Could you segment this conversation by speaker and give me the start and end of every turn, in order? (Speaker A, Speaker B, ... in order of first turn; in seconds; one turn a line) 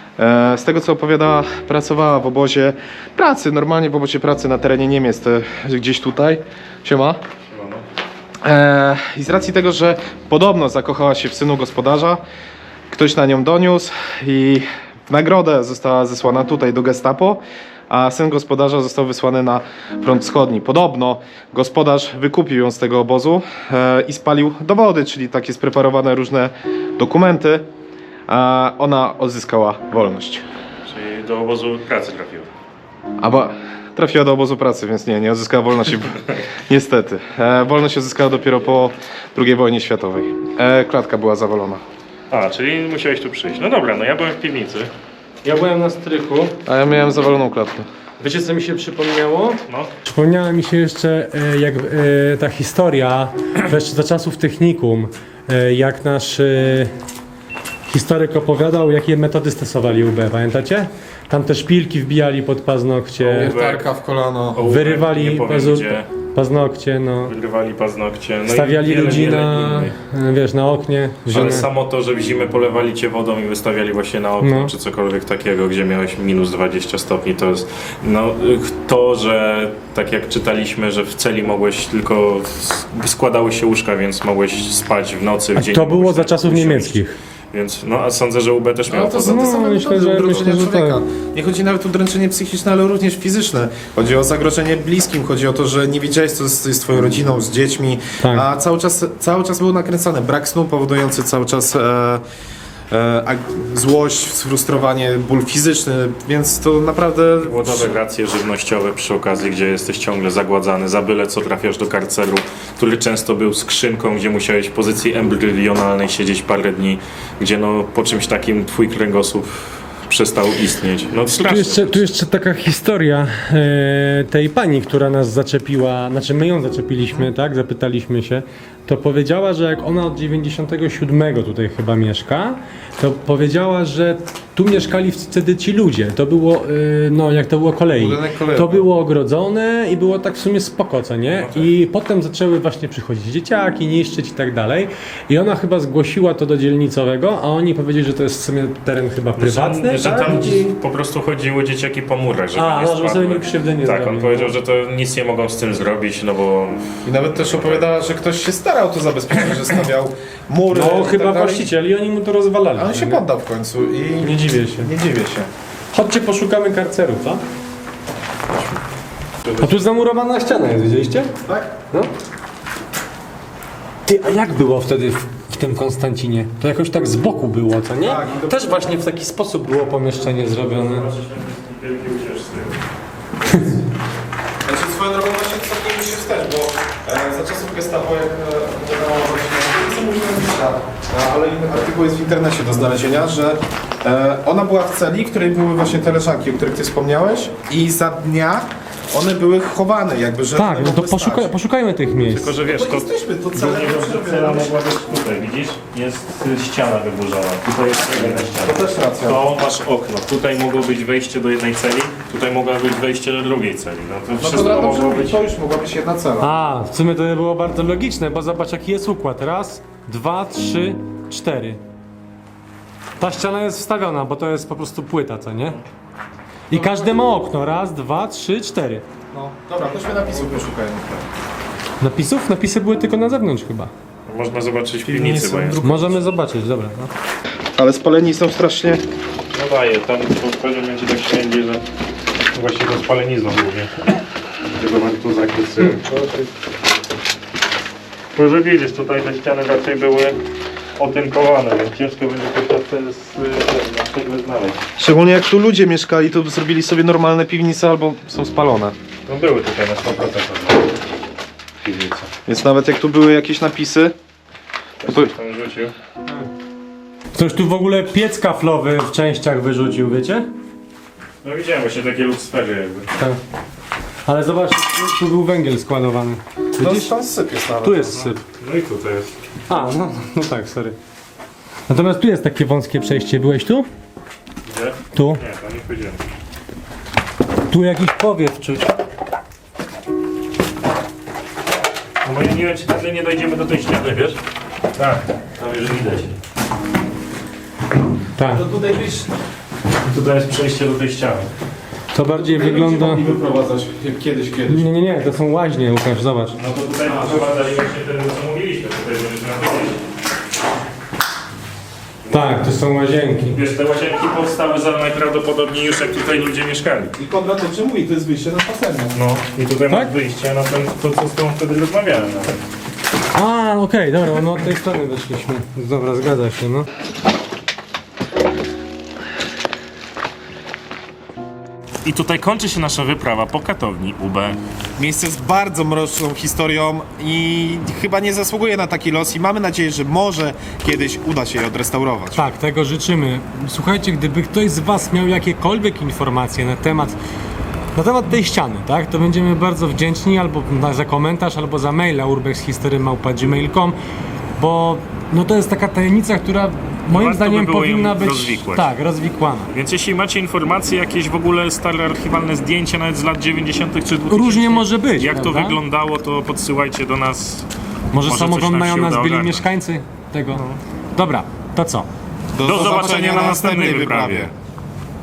Speaker A: 0.2-7.2
Speaker B: 7.5-7.8
Speaker A: 8.4-12.2
Speaker A: 12.9-27.7
Speaker A: 28.3-30.4
Speaker B: 30.9-32.5
Speaker A: 33.2-41.8
Speaker B: 42.3-44.9
Speaker C: 45.4-46.6
Speaker A: 46.6-47.9
Speaker C: 48.2-56.9
Speaker C: 57.9-63.6
Speaker A: 63.2-64.7
Speaker B: 63.3-63.9
Speaker B: 64.5-66.1
Speaker C: 64.7-67.3
Speaker B: 67.3-69.9
Speaker C: 68.5-71.7
Speaker B: 71.3-89.6
Speaker C: 74.4-74.7
Speaker C: 85.6-87.2
Speaker A: 88.9-102.2
Speaker C: 89.3-91.0
Speaker C: 98.2-98.5
Speaker A: 102.9-108.0
Speaker B: 107.4-122.0
Speaker C: 121.3-150.8
Speaker A: 137.9-138.8
Speaker B: 141.4-141.7
Speaker B: 149.4-157.9
Speaker C: 152.5-154.6
Speaker A: 157.1-161.7
Speaker C: 160.7-163.2
Speaker A: 162.8-165.5
Speaker C: 164.2-164.9
Speaker C: 165.9-167.4
Speaker C: 169.6-171.3
Speaker A: 171.4-171.7
Speaker C: 174.1-181.1
Speaker A: 178.0-178.8
Speaker B: 180.7-182.8
Speaker A: 184.6-201.5
Speaker C: 200.6-202.5
Speaker B: 202.3-215.4
Speaker A: 202.6-204.8
Speaker A: 208.2-209.4
Speaker A: 214.4-216.5
Speaker C: 216.4-221.8
Speaker C: 223.2-225.8
Speaker C: 226.7-229.1
Speaker A: 226.7-227.1
Speaker A: 229.3-231.3
Speaker C: 232.0-233.9
Speaker B: 234.3-235.8
Speaker A: 235.0-236.2
Speaker C: 235.8-237.1
Speaker A: 237.8-239.0
Speaker B: 239.5-241.8
Speaker B: 242.5-244.2
Speaker B: 244.8-246.0
Speaker C: 245.9-246.5
Speaker B: 248.3-250.4
Speaker B: 251.0-254.8
Speaker A: 255.0-259.0
Speaker B: 259.3-260.9
Speaker B: 261.8-262.3
Speaker A: 262.5-264.1
Speaker B: 265.0-265.9
Speaker C: 267.3-270.5
Speaker B: 271.4-273.1
Speaker C: 274.3-277.1
Speaker A: 276.8-278.3
Speaker C: 277.8-278.4
Speaker B: 278.6-279.3
Speaker C: 279.7-281.0
Speaker C: 281.9-283.9
Speaker B: 284.7-286.2
Speaker C: 285.1-285.4
Speaker C: 287.7-288.9
Speaker B: 292.2-294.4
Speaker B: 295.0-296.4
Speaker C: 298.4-298.7
Speaker A: 298.5-299.1
Speaker B: 299.0-299.3
Speaker B: 300.0-301.5
Speaker C: 302.1-303.3
Speaker A: 302.3-304.9
Speaker C: 304.7-306.6
Speaker B: 306.6-310.0
Speaker A: 307.1-307.4
Speaker C: 312.3-313.6
Speaker B: 313.5-317.1
Speaker A: 317.2-319.2
Speaker B: 319.1-322.6
Speaker C: 323.3-326.9
Speaker B: 332.0-334.6
Speaker A: 335.0-342.4
Speaker C: 342.4-347.2
Speaker C: 347.9-354.0
Speaker C: 354.6-359.7
Speaker B: 357.1-358.9
Speaker B: 359.7-367.7
Speaker C: 364.3-365.8
Speaker C: 368.1-370.6
Speaker B: 368.2-369.7
Speaker B: 370.5-370.8
Speaker C: 371.1-372.1
Speaker A: 372.5-374.5
Speaker B: 372.6-374.5